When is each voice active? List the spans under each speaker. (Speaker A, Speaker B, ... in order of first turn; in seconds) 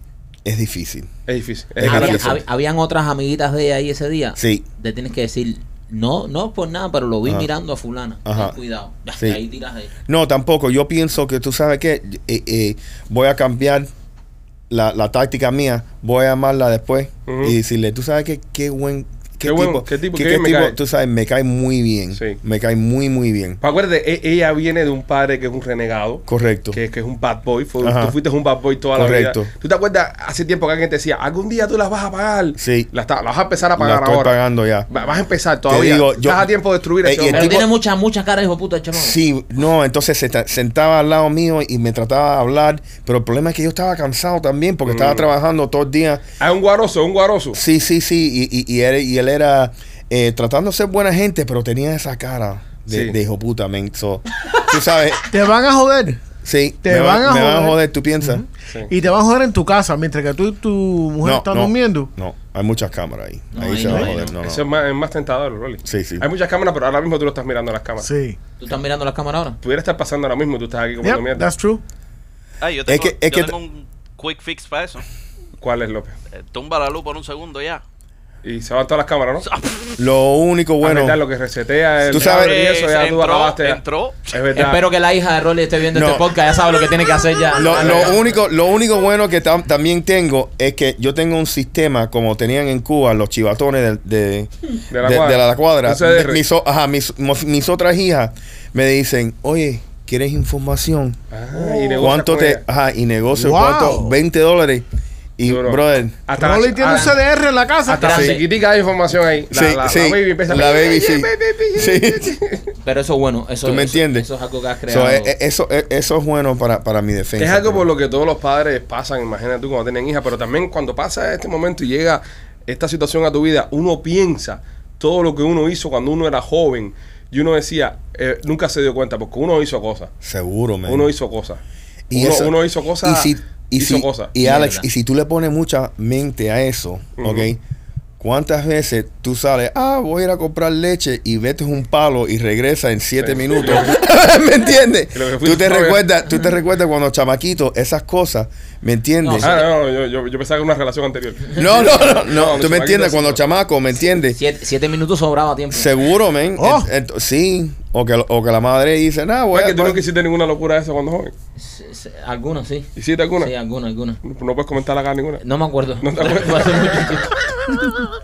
Speaker A: 0.4-1.1, 1.8-2.4, 4.4-4.6, 8.2-8.6, 10.1-13.9, 14.7-23.6, 26.3-26.8, 27.8-28.1, 28.9-29.5, 32.6-32.9, 33.8-34.9, 35.7-36.5, 37.0-37.6, 39.0-46.2, 47.5-55.3, 56.4-58.4, 61.2-64.6, 65.8-66.3, 72.9-73.5, 80.0-81.2, 82.1-82.6, 85.9-86.3, 87.5-104.8, 105.4-106.2, 109.5-112.4, 113.6-114.3, 114.9-117.9, 130.2-131.1, 132.1-137.6, 138.2-149.5, 151.5-154.4, 155.7-160.0
Speaker B: 1.3-2.4, 17.3-17.6, 19.4-20.8, 23.6-34.4, 34.9-37.7, 44.9-45.3, 46.4-47.6, 52.9-53.2, 64.4-68.1, 69.6-71.5, 75.6-76.2, 78.4-79.5, 80.8-84.8, 87.7-88.1, 94.9-96.4, 101.3-102.6, 105.5-107.2, 107.9-112.6, 117.4-130.1, 130.9-131.6, 132.1-134.3, 137.2-137.5, 143.2-144.0, 145.1-146.0, 149.4-153.4, 159.5-161.3, 162.9-163.5, 164.2-165.4, 166.0-167.3
Speaker C: 1.8-9.9, 37.3-39.2, 63.5-64.3, 68.6-69.6, 84.5-88.2, 106.8-107.2, 107.9-108.5, 112.8-115.3, 134.4-134.8, 149.2-149.7, 154.2-155.9, 161.6-164.2, 165.4-167.3
Speaker D: 55.3-56.2, 56.8-62.1, 68.0-68.4, 71.0-71.8, 103.3-104.1, 106.3-108.2, 156.6-156.9
Speaker E: 72.6-75.0, 76.4-77.8, 79.5-80.0, 82.1-84.2